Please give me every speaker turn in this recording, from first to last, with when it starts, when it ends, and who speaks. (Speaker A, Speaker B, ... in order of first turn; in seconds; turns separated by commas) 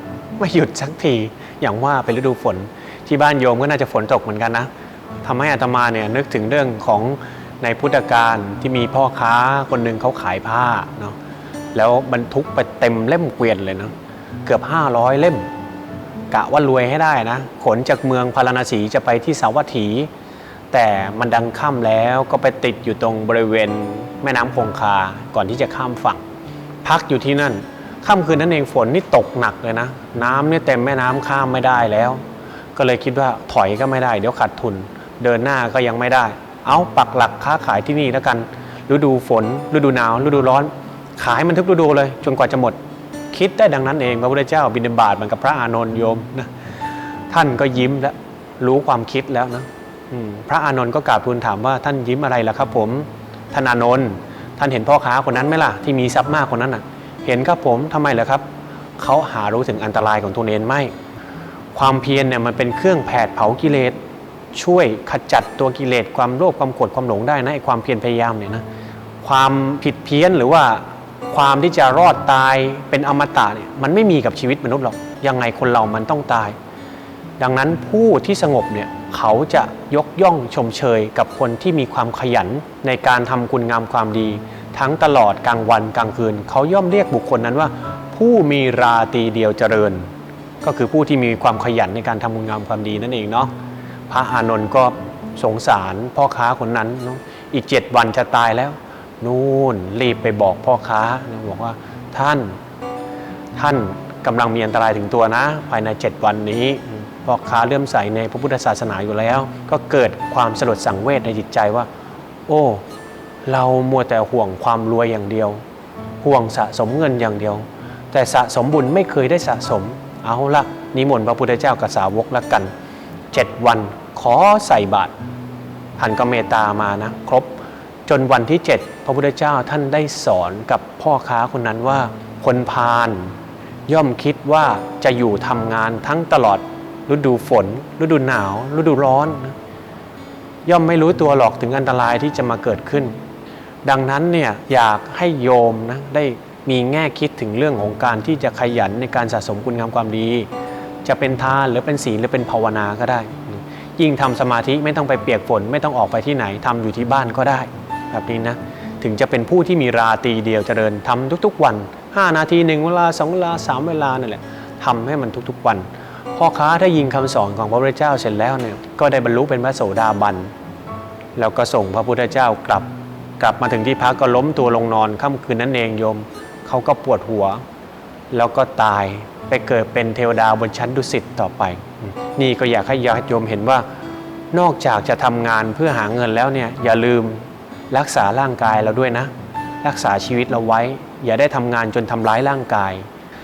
Speaker A: 0.4-4.7, Speaker A: 5.2-11.2, Speaker A: 11.7-13.9, Speaker A: 14.4-15.4, Speaker A: 16.3-20.1, Speaker A: 20.7-26.2, Speaker A: 26.8-32.2, Speaker A: 32.7-42.8, Speaker A: 43.3-46.5, Speaker A: 47.3-58.4, Speaker A: 59.0-60.9, Speaker A: 61.7-64.0, Speaker A: 64.5-68.6, Speaker A: 69.2-76.6, Speaker A: 77.4-90.1, Speaker A: 90.6-93.5, Speaker A: 94.1-102.5, Speaker A: 103.5-111.9, Speaker A: 112.5-112.8, Speaker A: 113.4-115.6, Speaker A: 116.2-122.7, Speaker A: 123.3-125.1, Speaker A: 126.0-127.5, Speaker A: 128.1-133.3, Speaker A: 133.9-139.6, Speaker A: 140.6-143.1, Speaker A: 143.8-150.5, Speaker A: 151.0-170.5, Speaker A: 171.3-172.9, Speaker A: 173.4-177.6, Speaker A: 178.3-183.8, Speaker A: 184.5-189.3, Speaker A: 189.8-193.1